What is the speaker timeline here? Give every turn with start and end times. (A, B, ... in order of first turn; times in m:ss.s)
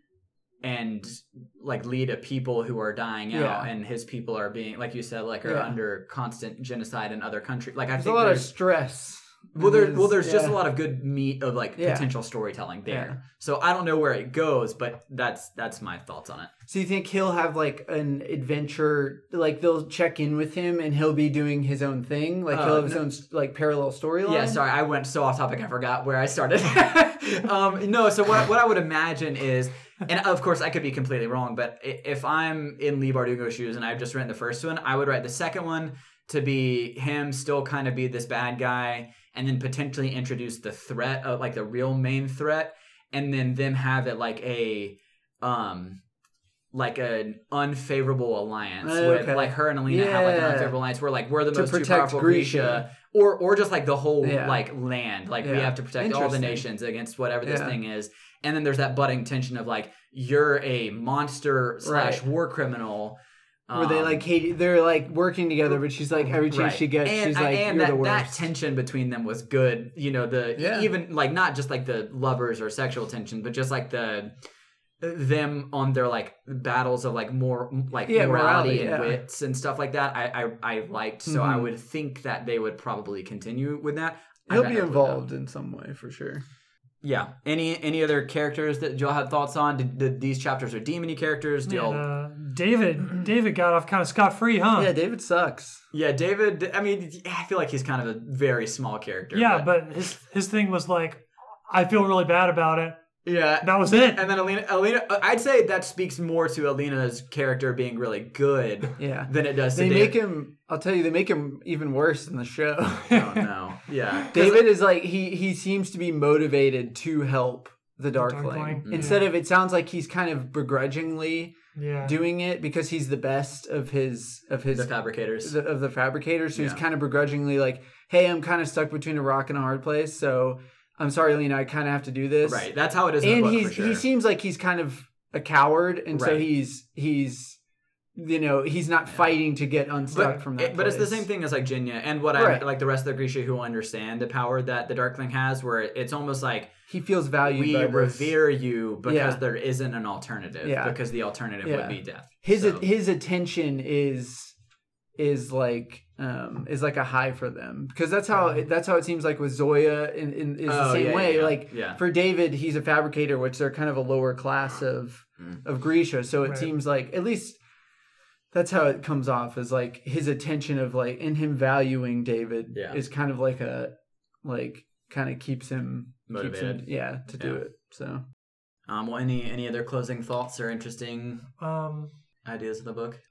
0:00.6-0:08.5 A
0:03.3-0:03.7 B
0:05.4-0:05.8 B
0:08.0-0:10.6 B
0:09.6-0:16.5 A
0:11.8-0:12.1 B
0:12.9-0:13.2 B
0:16.7-0:24.6 B
0:22.5-0:23.0 A
0:24.2-0:46.0 A
0:46.7-1:03.2 A
0:48.8-0:50.8 B
0:51.5-0:52.8 B
0:54.2-0:54.6 B
0:55.4-0:56.6 B
0:57.4-0:57.8 B
1:01.8-1:02.2 B
1:03.7-1:04.2 A
1:03.7-1:08.5 B
1:06.5-1:14.3 A
1:10.6-1:10.9 B
1:15.0-1:25.2 A
1:18.1-1:19.2 B
1:21.2-1:21.7 B
1:24.5-1:26.4 B
1:27.0-1:32.0 A
1:31.6-1:34.9 C
1:34.8-1:35.8 B
1:35.9-1:39.7 A
1:39.3-1:43.0 C
1:43.2-1:50.2 A
1:43.6-1:44.2 C
1:49.0-1:53.3 B
1:53.1-1:54.7 A
1:54.3-2:12.7 B
1:58.2-1:59.2 C
1:58.8-1:59.2 A
2:01.8-2:02.1 C
2:04.7-2:05.5 A
2:06.5-2:06.8 A
2:12.4-2:14.0 A
2:13.2-2:17.6 B
2:16.1-2:16.4 A
2:18.1-2:21.3 B
2:20.1-2:20.4 C
2:20.1-2:26.7 A
2:22.3-2:22.6 B
2:26.9-2:28.3 B
2:27.4-2:32.8 A
2:29.0-2:29.4 B
2:30.6-2:31.0 B
2:31.6-2:34.5 B
2:35.2-2:47.6 B
2:38.3-2:38.6 C
2:40.6-2:42.0 A
2:46.4-2:46.7 C
2:48.5-2:53.9 B
2:52.7-2:53.0 A
2:54.4-2:58.2 B
2:56.3-2:57.6 A
2:58.9-3:01.4 A
3:01.6-3:02.1 C
3:02.4-3:03.2 A